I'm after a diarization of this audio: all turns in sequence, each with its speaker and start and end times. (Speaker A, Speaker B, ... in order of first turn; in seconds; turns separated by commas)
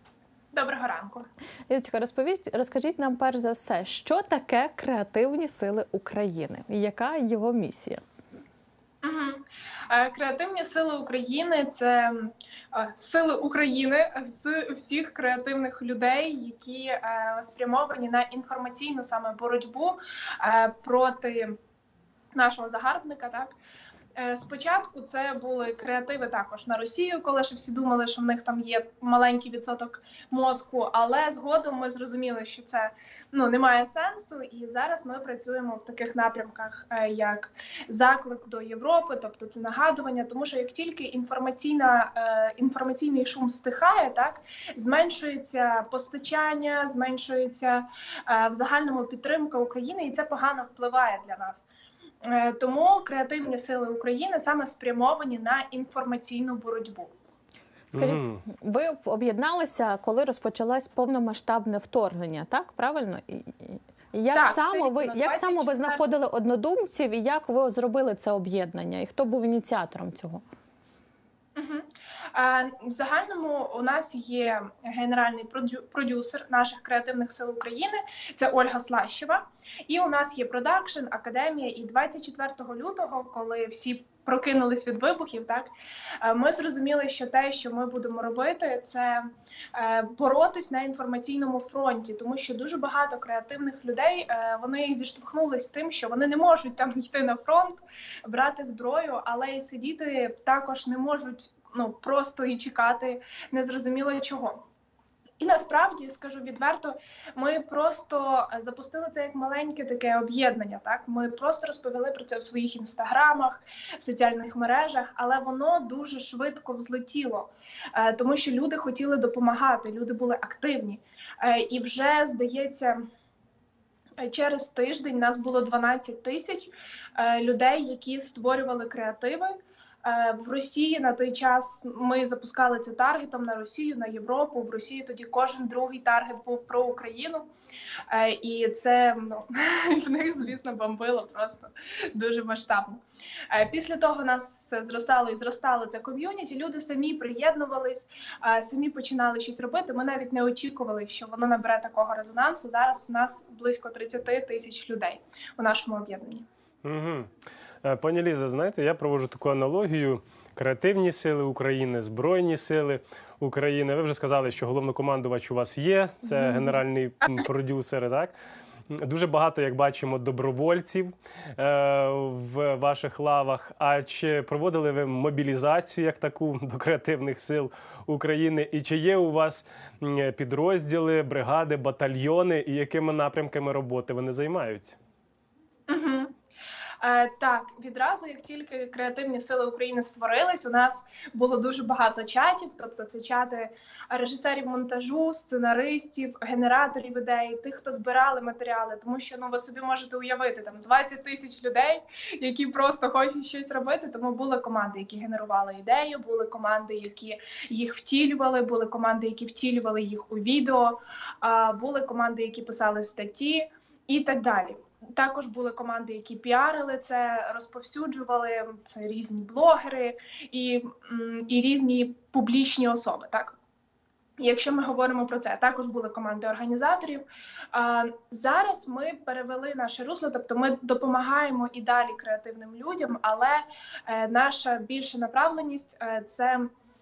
Speaker A: 0.5-1.3, Speaker B: 1.7-8.0, Speaker A: 9.0-21.6, Speaker A: 22.3-23.5, Speaker A: 24.1-51.6, Speaker A: 52.2-57.1, Speaker B: 57.9-70.4, Speaker C: 57.9-58.5, Speaker A: 64.3-66.0, Speaker A: 71.5-85.7, Speaker A: 86.2-104.6, Speaker A: 105.4-123.0, Speaker A: 124.2-137.5, Speaker A: 138.1-156.4, Speaker C: 156.8-157.3, Speaker C: 157.8-168.3, Speaker A: 166.2-166.8, Speaker C: 168.9-184.9, Speaker A: 185.9-186.3, Speaker A: 187.0-223.5, Speaker A: 224.4-236.7